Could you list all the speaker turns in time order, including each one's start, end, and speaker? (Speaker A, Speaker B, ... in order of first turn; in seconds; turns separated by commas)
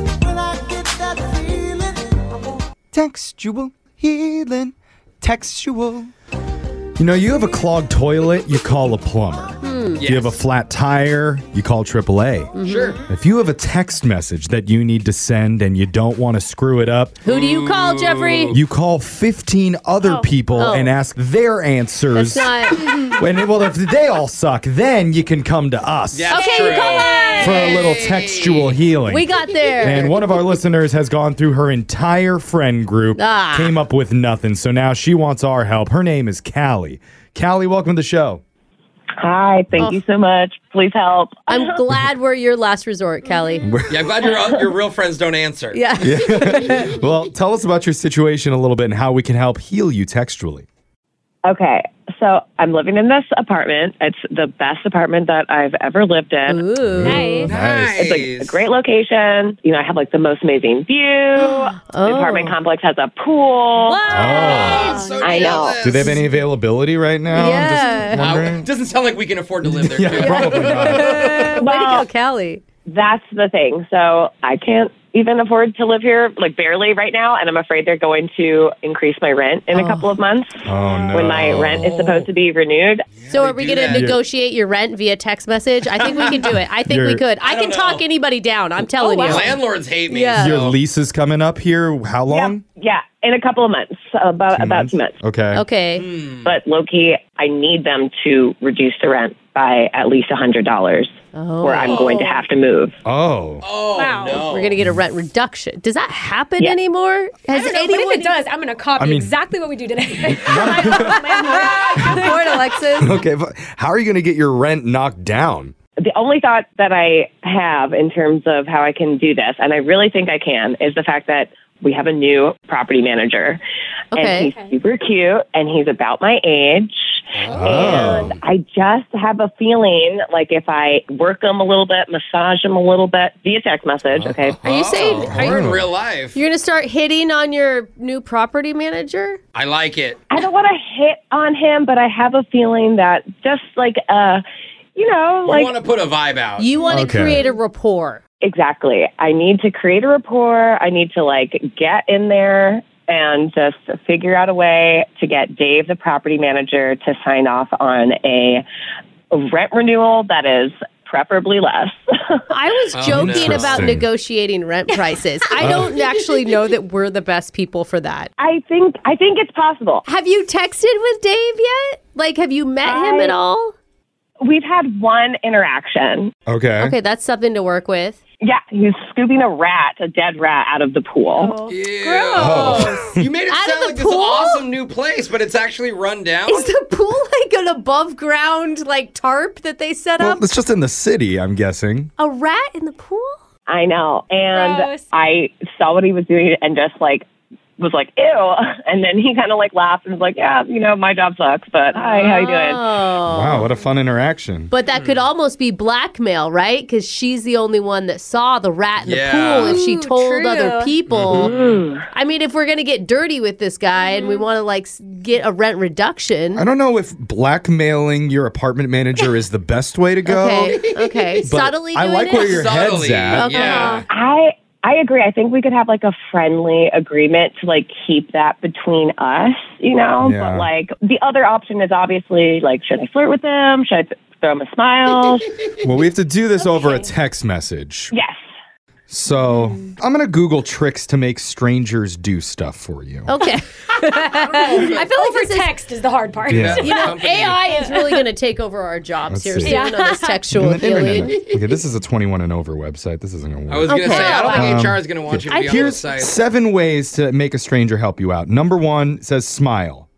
Speaker A: 0.3-2.0, Speaker A: 2.9-6.1, Speaker A: 7.0-12.5, Speaker B: 9.6-10.1, Speaker C: 10.0-10.4, Speaker B: 12.5-13.0, Speaker C: 12.6-13.0, Speaker A: 13.1-17.2, Speaker B: 17.2-18.6, Speaker C: 17.2-18.6, Speaker A: 18.5-26.4, Speaker D: 20.0-20.7, Speaker B: 20.6-21.0, Speaker B: 22.1-22.9, Speaker C: 26.1-28.8, Speaker B: 26.3-27.8, Speaker D: 26.3-27.6, Speaker A: 27.4-29.3, Speaker B: 29.1-30.1, Speaker A: 29.8-38.4, Speaker B: 33.1-33.8, Speaker E: 39.2-41.8, Speaker B: 41.5-43.7, Speaker A: 43.6-44.1, Speaker C: 43.9-45.9, Speaker B: 45.7-46.9, Speaker A: 46.0-50.6, Speaker E: 51.5-56.6, Speaker B: 56.5-57.5, Speaker A: 56.8-58.0, Speaker D: 57.0-57.5, Speaker C: 57.4-58.6, Speaker E: 58.0-64.0, Speaker B: 61.8-62.5, Speaker B: 63.8-65.0, Speaker D: 64.0-65.3, Speaker A: 64.1-65.0, Speaker C: 64.3-66.2, Speaker E: 64.7-66.1, Speaker A: 65.8-68.7, Speaker B: 67.3-68.2, Speaker C: 68.2-71.6, Speaker A: 69.6-71.2, Speaker B: 70.2-72.6, Speaker E: 71.5-72.1, Speaker E: 72.9-83.0, Speaker B: 79.7-80.2, Speaker A: 80.6-81.8, Speaker D: 80.9-81.2, Speaker C: 81.6-82.3, Speaker C: 83.2-84.1, Speaker B: 83.3-89.6, Speaker A: 83.9-84.2, Speaker C: 86.0-86.4, Speaker A: 86.8-87.2, Speaker C: 87.4-88.0, Speaker C: 89.0-90.8, Speaker B: 90.1-90.6, Speaker A: 90.3-92.6, Speaker E: 92.3-95.2, Speaker A: 94.5-95.6, Speaker B: 95.5-96.0, Speaker C: 96.0-96.5, Speaker E: 96.4-103.0, Speaker B: 101.3-102.4, Speaker C: 101.8-102.2, Speaker A: 103.0-103.6, Speaker C: 103.6-104.8, Speaker D: 103.9-104.5, Speaker B: 104.4-108.3, Speaker D: 107.5-112.6, Speaker A: 109.0-109.3, Speaker A: 110.3-111.2, Speaker B: 110.8-113.2, Speaker A: 113.0-115.7, Speaker E: 116.0-123.6, Speaker B: 124.1-124.5, Speaker E: 124.1-134.6, Speaker D: 124.4-124.7, Speaker C: 127.3-128.2, Speaker A: 127.5-128.3, Speaker C: 134.1-136.4, Speaker B: 134.6-135.6, Speaker A: 135.2-135.9, Speaker B: 136.3-139.4, Speaker C: 139.5-140.2, Speaker E: 140.3-144.4, Speaker E: 144.9-145.7, Speaker C: 145.4-146.7, Speaker B: 146.6-148.2, Speaker D: 146.8-147.5, Speaker A: 146.9-147.4, Speaker E: 148.4-158.6, Speaker E: 159.3-162.4, Speaker B: 162.5-168.3, Speaker C: 162.9-164.0, Speaker A: 163.1-164.1, Speaker A: 165.6-165.9, Speaker E: 168.4-170.0, Speaker B: 170.1-173.7, Speaker E: 172.8-173.3, Speaker E: 174.4-176.3, Speaker A: 176.5-176.9, Speaker B: 176.8-178.2, Speaker E: 178.4-181.5, Speaker B: 181.4-184.6, Speaker C: 181.7-186.7, Speaker A: 182.3-183.2, Speaker B: 186.5-190.4, Speaker A: 190.2-192.1, Speaker B: 192.2-193.3, Speaker E: 193.7-197.2, Speaker D: 194.4-195.1, Speaker E: 197.8-202.9, Speaker B: 202.0-203.7, Speaker D: 202.0-202.3, Speaker A: 203.2-204.7, Speaker B: 204.7-211.5, Speaker C: 204.9-205.2, Speaker C: 209.0-209.8, Speaker D: 209.6-211.0, Speaker C: 211.1-211.8, Speaker E: 211.3-212.1, Speaker B: 212.1-216.6, Speaker D: 214.0-214.4, Speaker A: 216.5-220.8, Speaker B: 220.2-222.7, Speaker C: 220.7-221.3, Speaker A: 221.4-223.5, Speaker C: 222.3-224.1, Speaker B: 223.3-224.0, Speaker D: 223.7-224.0, Speaker E: 224.1-235.5, Speaker A: 230.2-230.7, Speaker A: 235.8-238.1, Speaker D: 236.6-237.1, Speaker E: 238.1-238.4, Speaker A: 239.1-243.3, Speaker B: 243.3-245.7, Speaker D: 244.0-247.1, Speaker C: 244.7-245.1, Speaker A: 246.4-246.9, Speaker C: 246.5-247.6, Speaker B: 246.7-251.4, Speaker D: 247.7-248.2, Speaker A: 249.3-249.8, Speaker D: 249.6-250.5, Speaker A: 250.5-260.1, Speaker C: 253.7-256.4, Speaker B: 253.9-254.9, Speaker B: 255.5-255.9